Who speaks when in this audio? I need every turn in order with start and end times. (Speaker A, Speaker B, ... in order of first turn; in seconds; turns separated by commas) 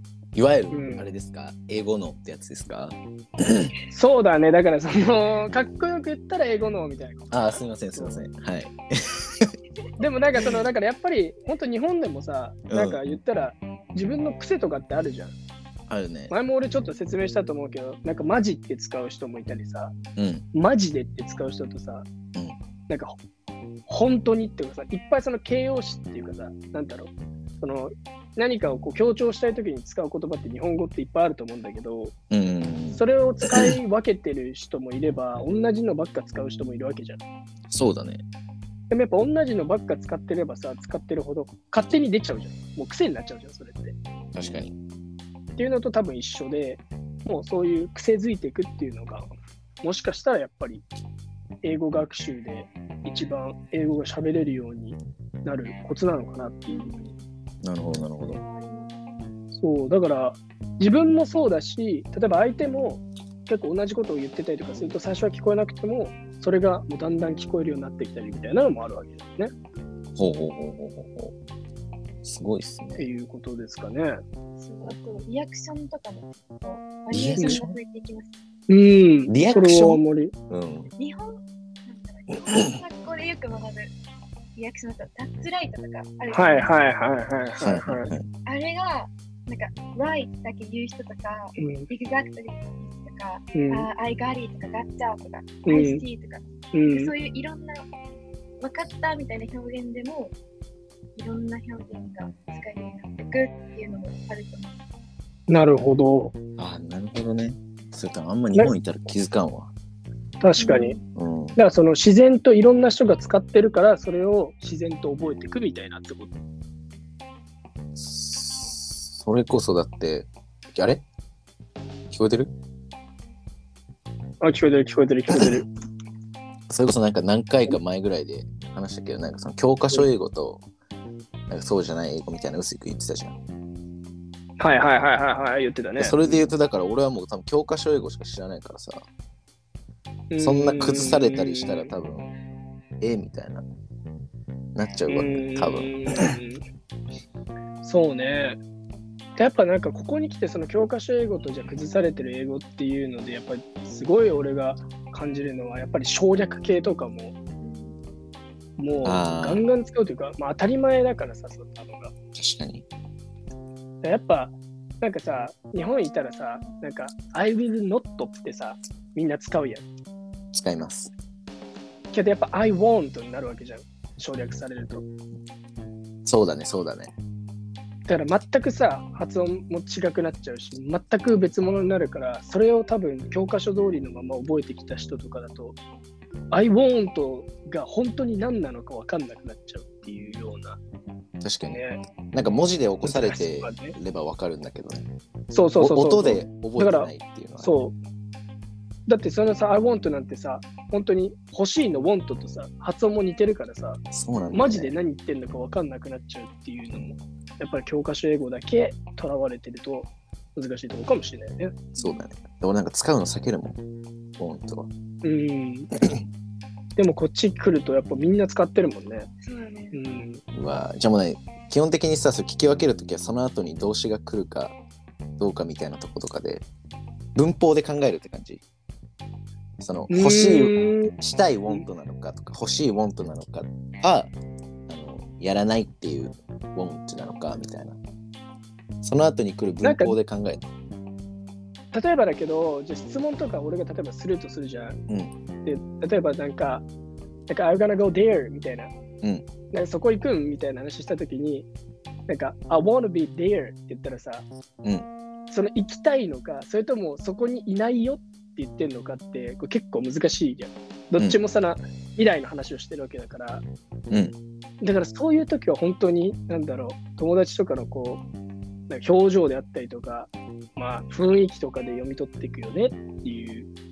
Speaker A: 0.3-3.7, Speaker B: 0.7-1.1, Speaker B: 3.9-8.2, Speaker A: 7.3-9.5, Speaker B: 10.0-15.3, Speaker A: 12.7-13.0, Speaker A: 15.9-16.3, Speaker B: 16.3-19.9, Speaker A: 20.2-20.5, Speaker B: 20.5-22.1, Speaker B: 22.9-23.2, Speaker B: 23.9-32.1, Speaker A: 32.3-33.7, Speaker B: 32.9-37.2, Speaker A: 37.7-38.2, Speaker B: 38.9-44.0, Speaker A: 44.3-44.8, Speaker B: 45.6-49.3, Speaker B: 49.8-50.8, Speaker B: 51.6-57.0, Speaker C: 56.7-57.2, Speaker A: 57.6-58.4, Speaker C: 58.2-58.9, Speaker B: 59.6-69.5, Speaker A: 70.2-71.3, Speaker A: 72.2-73.1, Speaker B: 73.0-74.2, Speaker C: 74.6-78.3, Speaker A: 77.1-77.8, Speaker B: 78.7-80.3, Speaker A: 79.3-80.9, Speaker C: 81.0-83.9, Speaker C: 84.6-86.8, Speaker B: 86.3-88.1, Speaker A: 87.6-88.3, Speaker C: 88.5-97.9, Speaker B: 91.6-91.9, Speaker B: 93.5-93.9, Speaker B: 95.7-96.0, Speaker B: 96.7-97.1, Speaker C: 98.6-100.3, Speaker C: 101.2-104.8, Speaker B: 105.5-106.3, Speaker A: 106.6-109.7, Speaker B: 110.4-111.0, Speaker C: 110.6-111.0, Speaker A: 111.2-111.6, Speaker B: 111.6-116.3, Speaker A: 118.0-121.0, Speaker A: 122.1-122.5, Speaker B: 124.4-125.7, Speaker A: 126.7-130.6, Speaker A: 131.5-133.4, Speaker B: 134.6-136.5, Speaker A: 136.0-139.0, Speaker B: 140.3-141.9, Speaker A: 140.4-142.3, Speaker A: 143.0-143.6, Speaker A: 144.8-146.0, Speaker B: 145.1-146.6, Speaker B: 147.8-148.6, Speaker B: 149.4-157.3, Speaker C: 157.6-158.0, Speaker B: 158.8-162.1, Speaker A: 159.0-159.7, Speaker A: 162.3-162.8, Speaker B: 164.0-169.8, Speaker A: 170.5-171.1, Speaker B: 172.1-175.1, Speaker A: 176.2-177.1, Speaker B: 178.1-185.8, Speaker B: 186.5-190.8, Speaker A: 191.4-195.1, Speaker B: 191.7-192.0, Speaker B: 193.0-194.0, Speaker B: 195.5-198.0, Speaker A: 195.8-197.8, Speaker B: 199.1-204.0, Speaker A: 204.1-204.9, Speaker B: 204.5-211.9, Speaker C: 212.0-212.3, Speaker A: 212.0-213.8, Speaker A: 214.4-214.9, Speaker B: 215.2-215.9, Speaker B: 217.0-219.3, Speaker C: 219.4-220.0, Speaker B: 219.9-220.4, Speaker A: 220.5-224.8, Speaker A: 225.4-226.7, Speaker A: 227.3-228.6, Speaker A: 229.8-234.3, Speaker B: 230.1-231.1, Speaker A: 234.9-238.0, Speaker A: 239.0-240.7, Speaker B: 239.8-240.2, Speaker B: 241.9-245.0, Speaker A: 245.1-245.3, Speaker B: 245.7-246.8, Speaker B: 247.5-248.9, Speaker A: 249.2-249.5, Speaker B: 249.7-251.7, Speaker B: 252.3-254.4, Speaker B: 255.5-263.6, Speaker A: 264.1-264.4, Speaker B: 264.8-268.2, Speaker B: 268.9-273.7